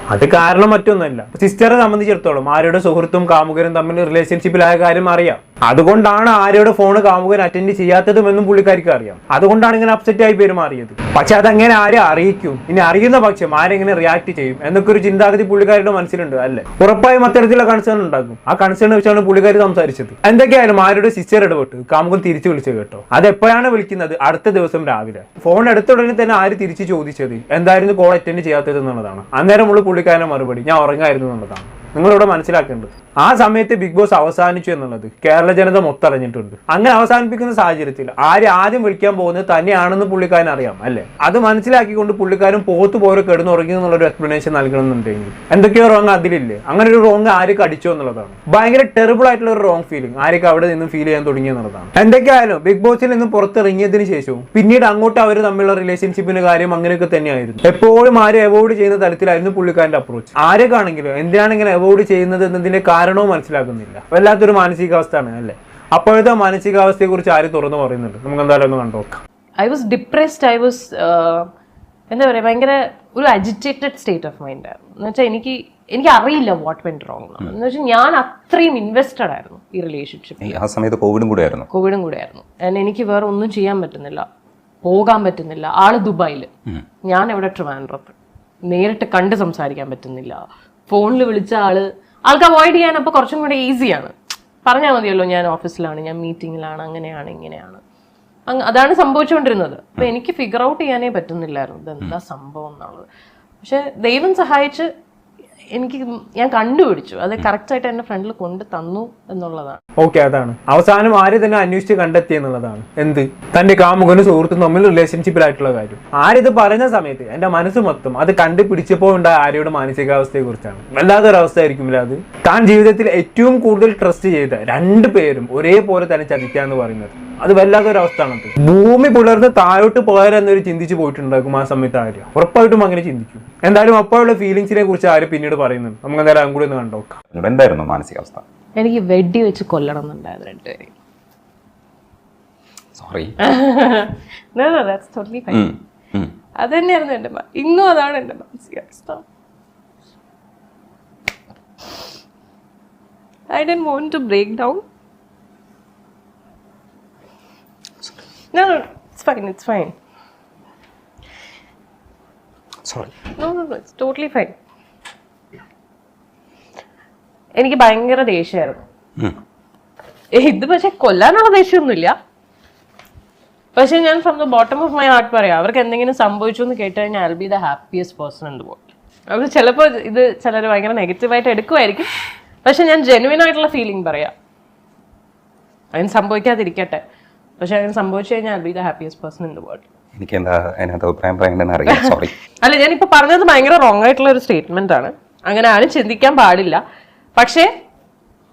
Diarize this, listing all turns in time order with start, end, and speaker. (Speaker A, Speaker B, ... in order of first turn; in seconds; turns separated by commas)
Speaker A: 0.1-69.2, Speaker B: 69.6-71.5, Speaker B: 72.1-80.6, Speaker C: 80.4-81.7, Speaker B: 81.7-84.2, Speaker B: 84.8-86.5, Speaker B: 87.0-88.2, Speaker B: 88.7-94.1, Speaker B: 94.6-97.8, Speaker B: 98.5-103.0, Speaker B: 103.6-104.9, Speaker B: 105.7-109.8, Speaker A: 110.0-137.2, Speaker C: 137.3-138.4, Speaker B: 138.8-140.9, Speaker C: 143.0-143.3, Speaker B: 143.4-145.7, Speaker C: 145.5-146.3, Speaker B: 146.6-149.2, Speaker B: 153.5-154.8, Speaker B: 158.5-159.9, Speaker C: 162.8-163.1, Speaker B: 163.3-164.5, Speaker B: 167.6-168.8, Speaker B: 170.3-172.1, Speaker B: 173.7-182.1, Speaker B: 182.6-184.3, Speaker B: 185.9-187.0, Speaker B: 187.6-189.8, Speaker C: 190.2-192.3, Speaker B: 191.8-196.8, Speaker B: 197.4-197.7